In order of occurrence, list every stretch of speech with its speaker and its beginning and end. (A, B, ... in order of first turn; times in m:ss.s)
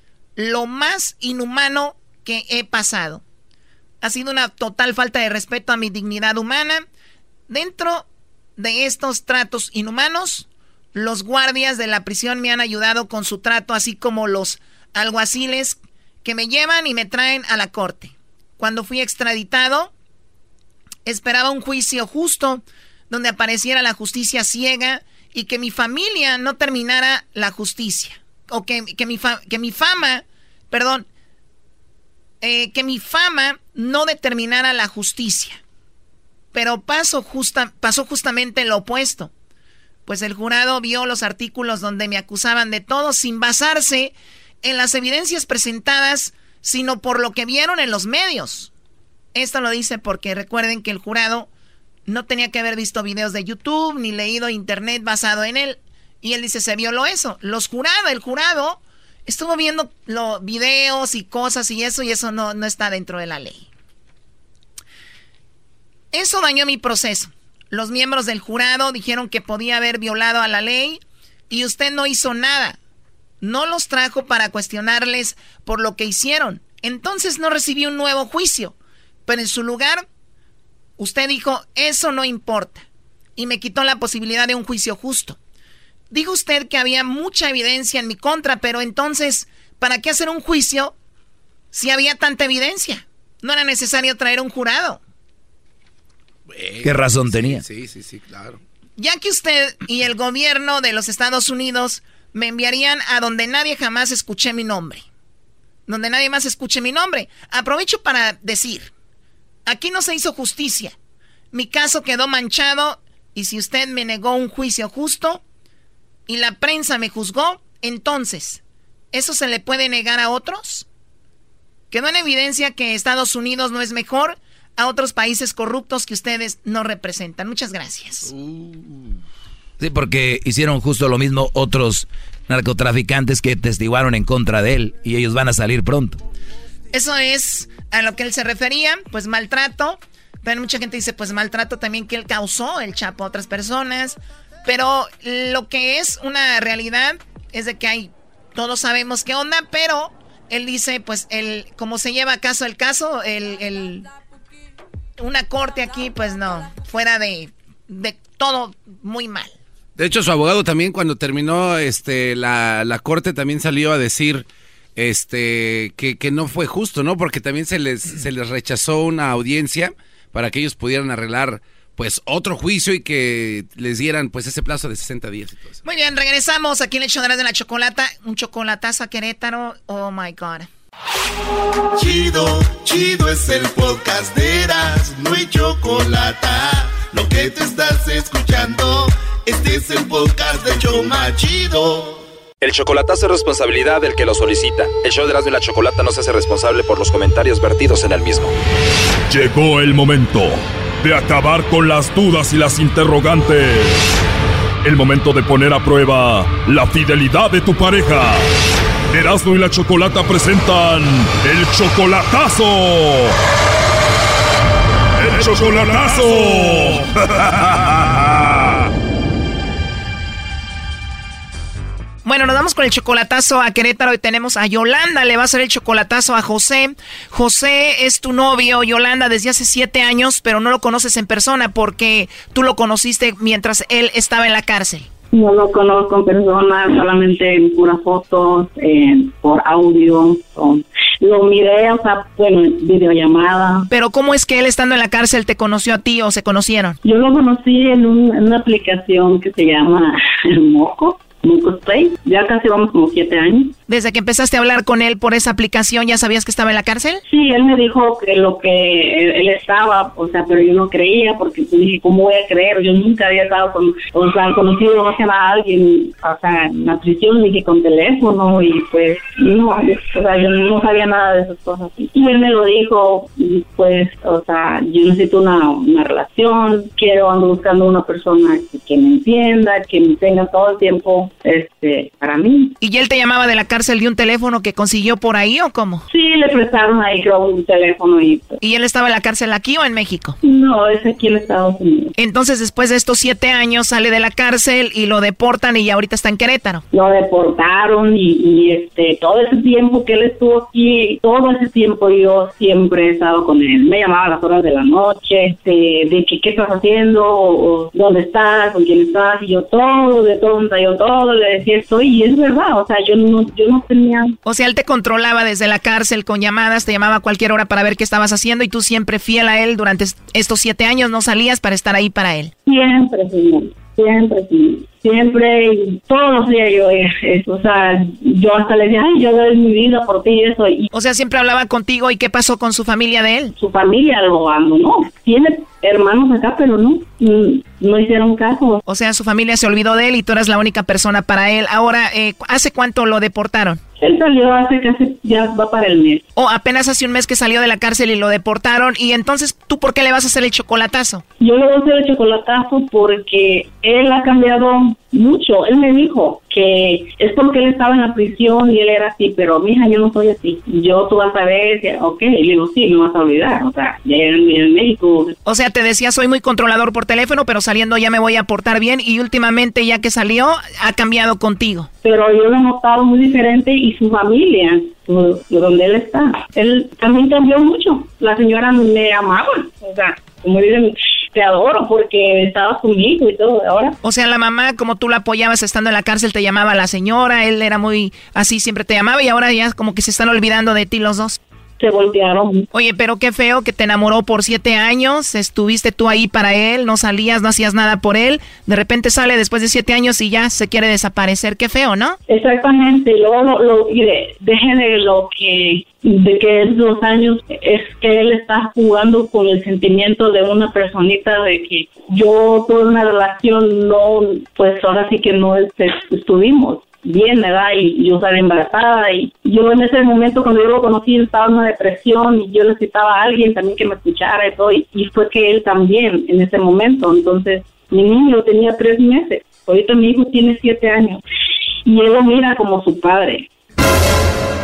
0:00.4-0:03.2 A
0:04.0-0:06.8 A
0:07.5-0:08.0 A
0:08.6-0:19.9 A
0:21.0-0:31.0 A
0:32.4-0:35.6 A
0:36.5-0:39.3 A
0:40.1-0:48.7 A
0:49.3-0:51.5 A
0:52.1-1:03.7 A
1:06.1-1:12.8 A
1:13.4-1:18.7 A
1:19.3-1:20.0 A
1:21.0-1:22.8 A
1:23.4-1:25.4 A
1:26.1-1:30.9 A
1:31.7-1:35.0 A
1:36.5-1:38.6 B
1:36.8-1:37.6 C
1:39.0-1:45.0 A
1:45.9-1:48.9 A
1:49.7-1:50.9 A
1:51.5-1:55.4 A
1:56.3-1:58.6 A
1:59.1-2:00.8 A
2:01.9-2:08.3 A
2:08.3-2:09.2 B
2:09.8-2:16.2 C
2:16.9-2:34.1 A
2:35.2-2:39.5 A
2:40.0-2:55.8 B
2:55.8-3:00.7 A
3:01.9-3:12.2 D
3:12.6-3:18.5 E
3:19.3-3:24.1 F
3:24.8-3:28.5 F
3:29.1-3:33.3 F
3:35.2-3:38.4 F
3:42.2-3:55.1 A
3:55.3-4:03.9 G
4:03.9-4:07.0 A
4:07.0-4:13.7 G
4:13.9-4:17.2 A
4:17.3-4:42.7 G
4:42.8-4:46.0 A
4:46.1-4:48.6 G
4:48.6-4:50.4 A
4:50.4-4:52.1 G
4:52.2-4:56.8 A
4:56.9-5:14.4 G
5:14.4-5:22.5 A
5:22.6-5:30.9 G
5:30.9-5:33.5 A
5:33.6-5:38.8 G
5:38.9-5:43.8 A
5:44.0-5:46.2 G
5:46.4-5:51.2 A
5:51.4-6:05.4 G
6:05.4-6:11.9 A
6:12.0-6:24.0 G
6:24.0-6:31.4 A
6:31.8-6:32.7 G
6:32.7-6:42.2 A
6:42.3-7:11.2 G
7:11.8-7:13.5 G